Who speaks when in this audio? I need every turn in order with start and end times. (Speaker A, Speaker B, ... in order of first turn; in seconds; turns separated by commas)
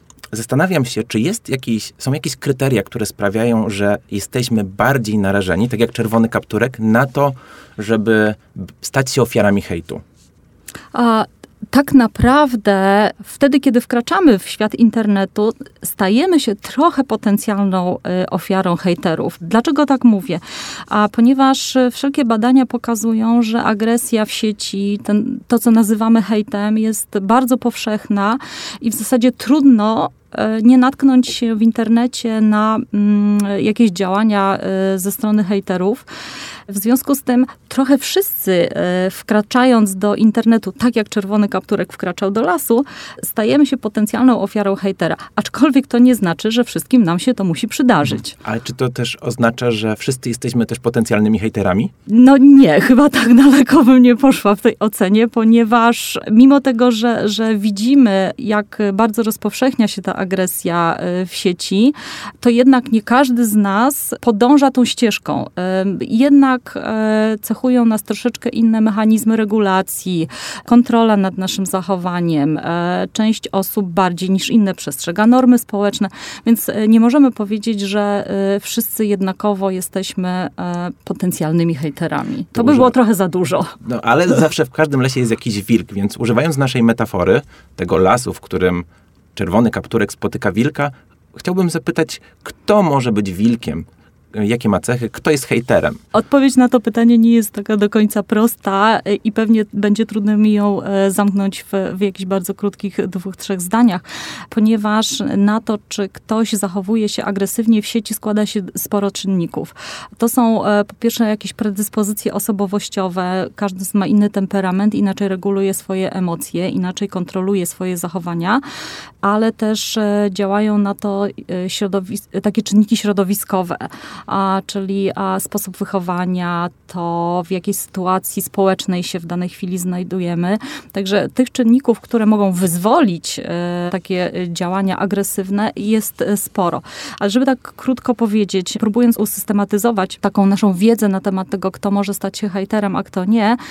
Speaker A: 0.3-10.0, Speaker B: 10.9-36.0, Speaker B: 36.7-48.3, Speaker A: 48.4-51.9, Speaker B: 52.0-83.7, Speaker A: 82.5-82.9, Speaker A: 83.8-96.0, Speaker B: 96.1-118.6, Speaker B: 119.2-143.6